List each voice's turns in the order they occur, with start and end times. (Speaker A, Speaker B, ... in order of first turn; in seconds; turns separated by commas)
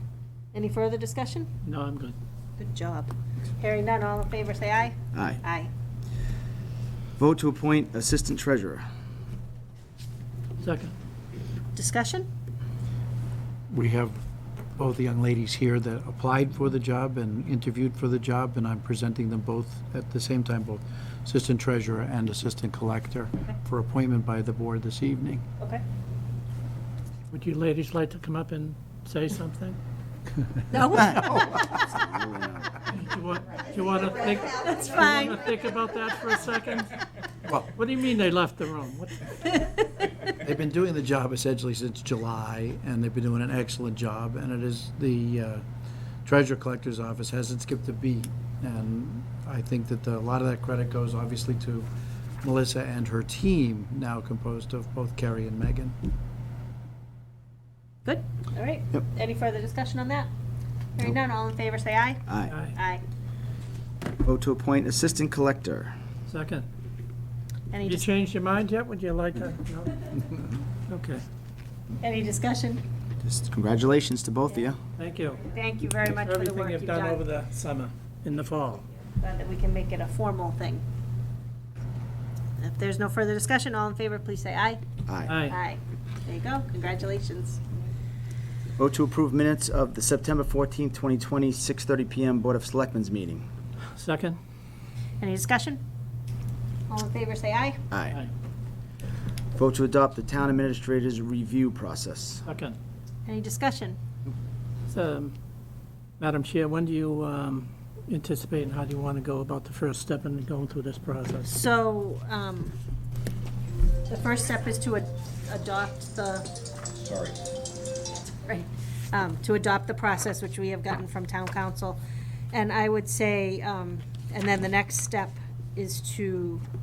Speaker A: 0.5-1.5, Speaker B: 1.6-2.1, Speaker A: 2.6-5.7, Speaker C: 5.1-5.4, Speaker C: 7.2-8.8, Speaker B: 10.6-10.9, Speaker A: 11.7-12.3, Speaker D: 13.7-14.2, Speaker D: 14.7-25.4, Speaker B: 27.3-29.8, Speaker A: 30.7-32.0, Speaker C: 31.0-32.8, Speaker B: 32.9-37.0, Speaker A: 34.6-35.5, Speaker D: 37.4-37.7, Speaker B: 37.7-39.3, Speaker D: 40.4-45.6, Speaker D: 46.2-51.9, Speaker D: 52.4-55.9, Speaker A: 58.0-60.3, Speaker A: 61.0-63.0, Speaker C: 62.3-62.5, Speaker B: 62.5-62.8, Speaker C: 64.2-65.9, Speaker B: 66.3-66.7, Speaker A: 67.7-68.1, Speaker B: 67.8-70.1, Speaker B: 70.9-71.2, Speaker A: 72.0-72.8, Speaker C: 73.2-74.8, Speaker B: 75.0-75.4, Speaker A: 75.4-77.2, Speaker B: 76.0-78.9, Speaker A: 79.2-80.8, Speaker A: 82.6-84.8, Speaker C: 85.1-85.4, Speaker B: 85.2-85.5, Speaker A: 85.4-87.6, Speaker C: 88.8-93.5, Speaker B: 93.9-94.4, Speaker A: 95.2-95.8, Speaker A: 96.9-97.8, Speaker C: 97.9-98.2, Speaker C: 99.5-102.4, Speaker B: 102.4-102.8, Speaker A: 103.2-104.0, Speaker B: 104.9-105.3, Speaker B: 106.2-111.5, Speaker A: 111.4-112.7, Speaker A: 114.1-116.5, Speaker A: 118.4-122.0, Speaker A: 122.5-126.6